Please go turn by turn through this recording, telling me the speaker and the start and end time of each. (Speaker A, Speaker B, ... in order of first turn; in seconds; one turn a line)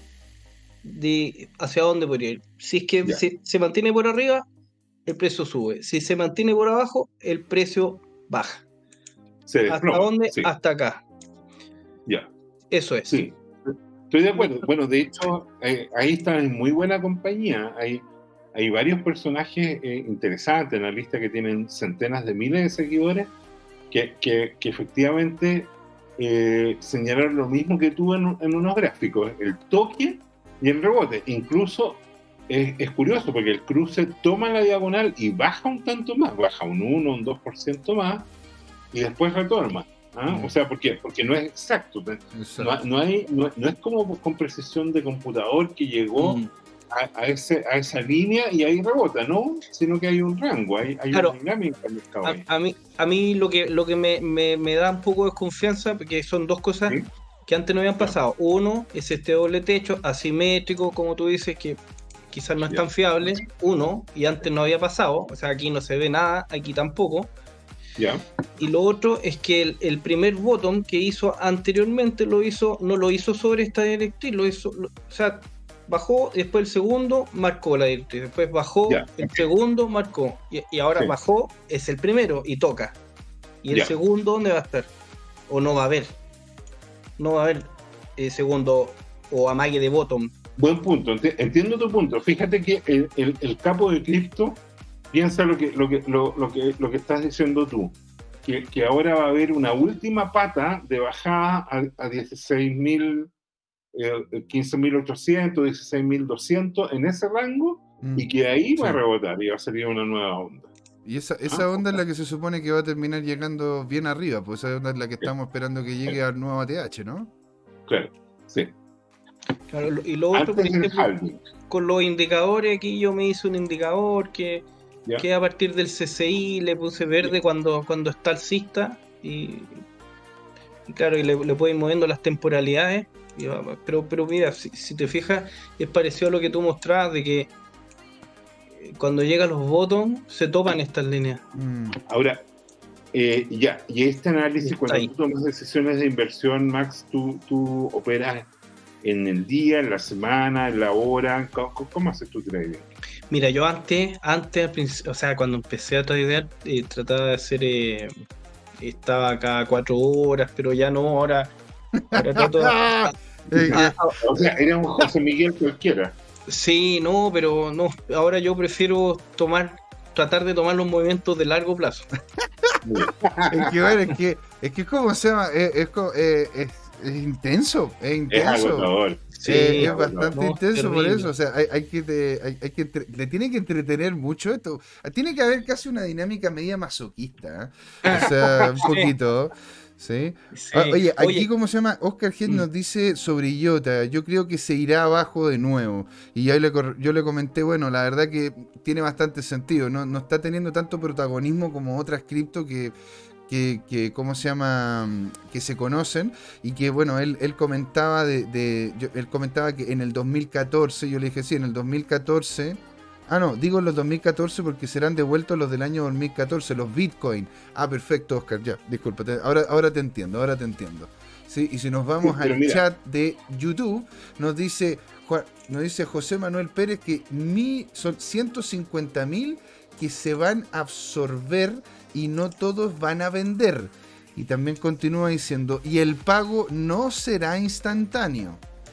Speaker A: 0.8-4.4
Speaker A: 5.0-8.6
Speaker B: 9.5-10.5
Speaker A: 9.7-11.0
Speaker A: 12.7-13.2
Speaker B: 13.1-23.3
Speaker B: 23.9-38.3
Speaker B: 38.9-46.4
Speaker C: 40.3-40.5
Speaker C: 42.3-42.8
Speaker A: 46.2-46.5
Speaker B: 46.9-52.4
Speaker A: 52.2-61.8
Speaker A: 62.3-67.3
Speaker B: 62.6-63.4
Speaker B: 68.0-68.2
Speaker A: 68.6-83.0
Speaker B: 78.9-79.5
Speaker A: 83.6-84.9
Speaker A: 85.5-86.2
Speaker A: 87.2-90.3
Speaker B: 90.6-103.3
Speaker B: 103.9-110.7
Speaker C: 108.0-109.0
Speaker C: 111.0-117.3
Speaker B: 111.5-112.0
Speaker B: 117.9-118.7
Speaker A: 119.7-121.1
Speaker B: 120.3-121.4
Speaker A: 121.7-124.7
Speaker A: 125.2-129.8
Speaker A: 130.9-137.5
Speaker A: 138.8-141.4
Speaker C: 141.5-142.0
Speaker B: 142.1-142.4
Speaker B: 143.1-148.5
Speaker A: 144.6-145.1
Speaker B: 149.0-152.9
Speaker A: 153.3-158.1
Speaker A: 158.8-161.5
Speaker C: 162.1-163.9
Speaker A: 162.1-163.1
Speaker B: 163.5-166.2
Speaker A: 163.7-164.2
Speaker A: 166.5-172.1
Speaker B: 172.8-174.1
Speaker C: 173.5-178.9
Speaker B: 178.3-180.3
Speaker A: 179.4-181.3
Speaker C: 179.4-202.9
Speaker A: 188.0-189.1
Speaker B: 188.1-188.8
Speaker A: 190.5-191.4
Speaker C: 203.5-238.6
Speaker B: 222.2-222.8